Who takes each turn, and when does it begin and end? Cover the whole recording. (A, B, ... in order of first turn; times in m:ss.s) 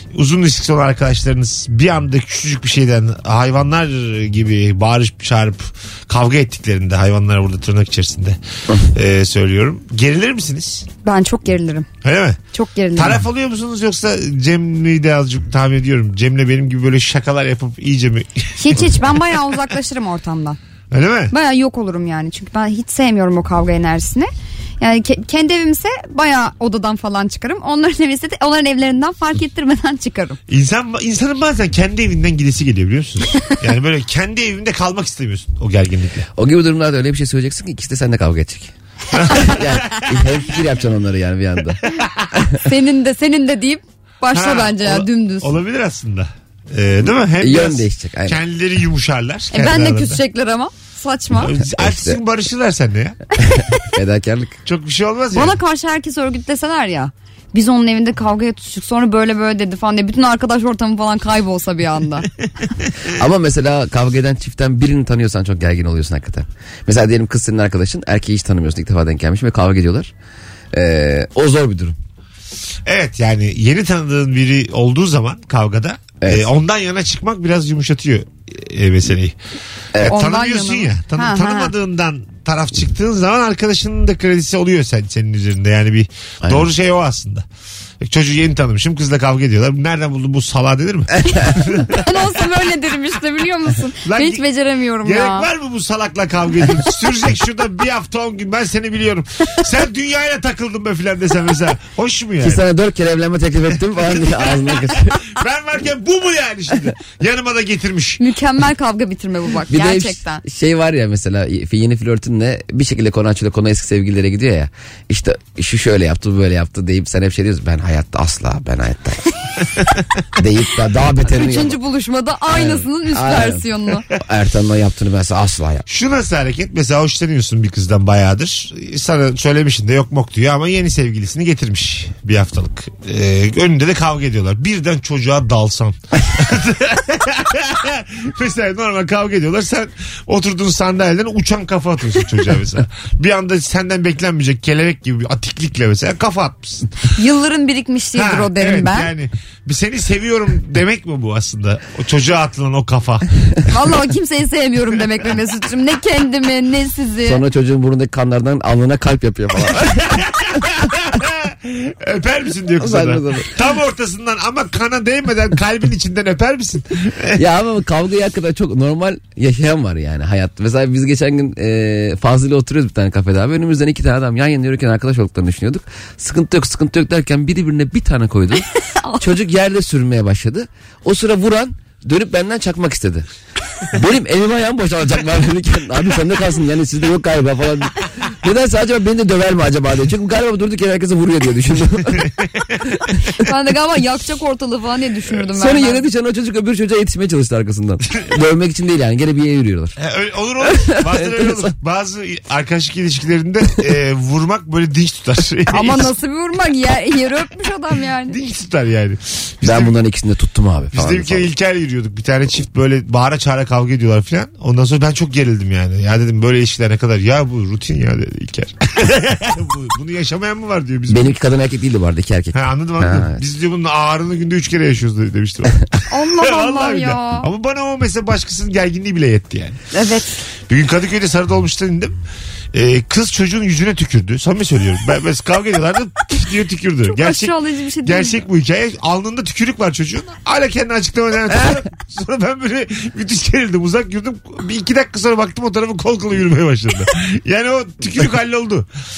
0:00.1-0:10.9 A
0:11.0-0:11.9 B
0:12.0-0:12.4 A
0:12.5-0:13.2 B
0:13.0-0:19.1 A
0:18.6-0:20.6 B
0:20.9-0:21.3 A
0:21.3-0:30.4 B
0:30.5-0:36.3 A
0:36.4-0:38.7 C
0:39.1-0:40.1 A
0:39.4-0:41.8 C
0:41.8-0:42.3 A
0:42.6-0:45.5 B
0:44.3-0:50.2 A
0:47.4-0:48.4 C
0:49.5-0:51.6 B
0:51.3-0:53.2 A
0:51.5-0:52.2 C
0:53.8-0:54.6 C
0:54.7-0:55.6 A
0:55.3-1:02.3 B
1:03.2-1:10.1 C
1:10.7-1:12.0 C
1:12.9-1:19.4 A
1:16.2-1:16.5 C
1:20.0-1:27.4 A
1:20.1-1:21.7 B
1:26.4-1:26.7 C
1:28.0-1:32.4 A
1:31.9-1:35.5 B
1:34.1-1:34.4 A
1:35.0-1:42.6 A
1:42.4-1:45.2 C
1:43.9-1:48.2 A
1:48.2-1:50.4 B
1:49.7-1:59.3 C
2:00.4-2:01.8 C
2:01.3-2:04.0 B
2:02.5-2:05.8 C
2:05.9-2:27.0 A
2:27.2-2:29.1 B
2:28.2-2:33.6 A
2:33.7-2:37.4 B
2:37.2-2:40.2 C
2:39.8-2:47.4 A
2:42.8-2:43.5 C
2:47.4-2:58.7 C
2:59.2-3:03.3 C
3:03.9-3:12.3 C
3:12.2-3:12.9 A
3:13.4-3:16.0 B
3:15.5-3:20.0 C
3:20.0-3:26.1 A
3:20.6-3:21.7 C
3:25.7-3:28.4 B
3:28.3-3:30.0 A
3:29.6-3:31.5 C
3:30.9-3:41.4 A
3:41.1-3:43.4 C
3:42.6-3:49.8 A
3:46.1-3:47.5 B
3:49.9-3:50.4 B
3:50.7-3:52.2 A
3:52.7-4:08.9 A
3:57.1-3:58.4 B